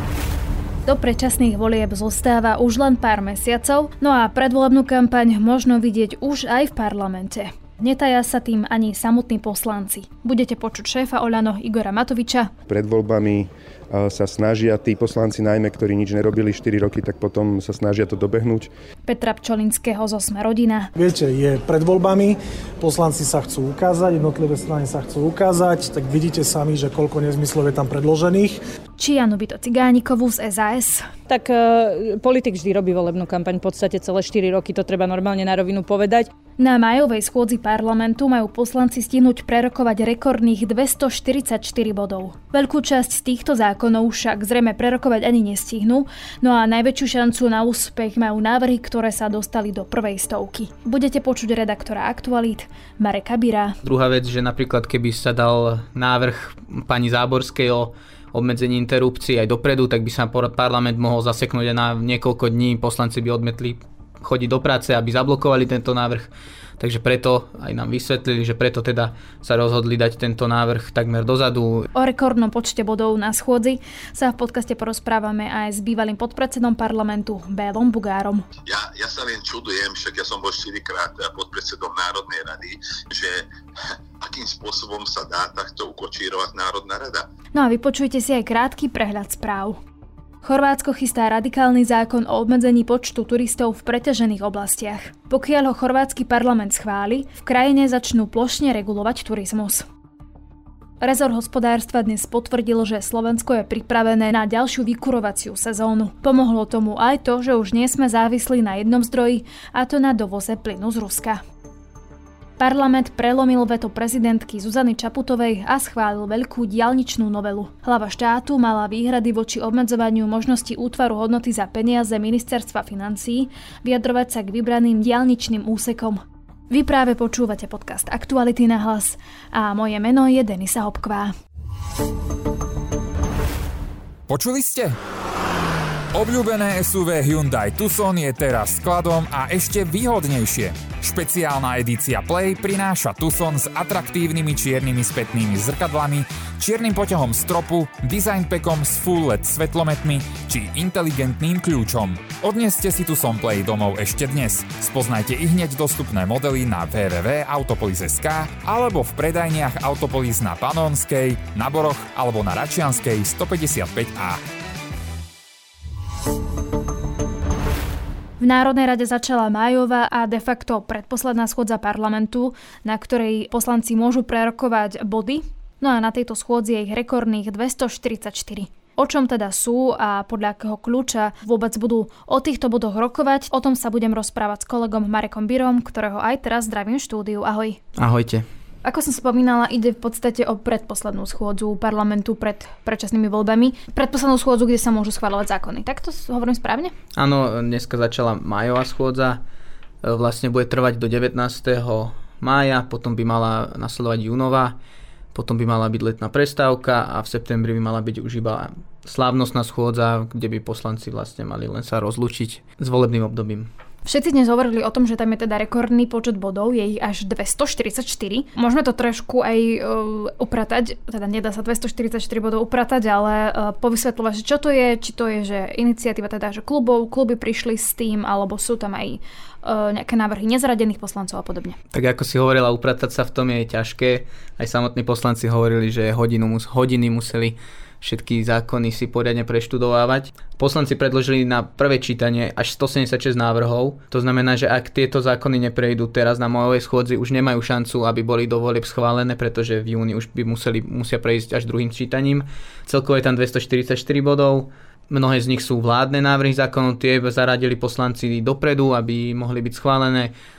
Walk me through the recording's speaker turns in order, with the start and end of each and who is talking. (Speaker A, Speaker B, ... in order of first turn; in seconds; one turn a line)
Speaker A: 0.9-12.5
Speaker B: 12.7-18.7
Speaker A: 19.1-20.9
Speaker C: 20.9-28.6
Speaker A: 29.0-31.1
Speaker D: 31.3-36.3
Speaker A: 36.6-53.8
Speaker E: 53.8-71.9
Speaker A: 71.9-78.5
Speaker F: 78.7-83.5
Speaker F: 84.2-87.3
Speaker A: 87.5-89.8
Speaker A: 90.4-99.8
Speaker A: 101.0-111.4
Speaker A: 112.6-126.2
Speaker A: 126.7-131.3
Speaker G: 134.3-135.0
Speaker G: 136.1-164.4
Speaker A: 168.4-187.8
Speaker E: 188.0-188.4
Speaker A: 188.8-196.9
Speaker E: 197.2-199.4
Speaker E: 200.0-204.8
Speaker E: 205.3-213.7
Speaker A: 214.1-231.8
Speaker E: 231.9-260.3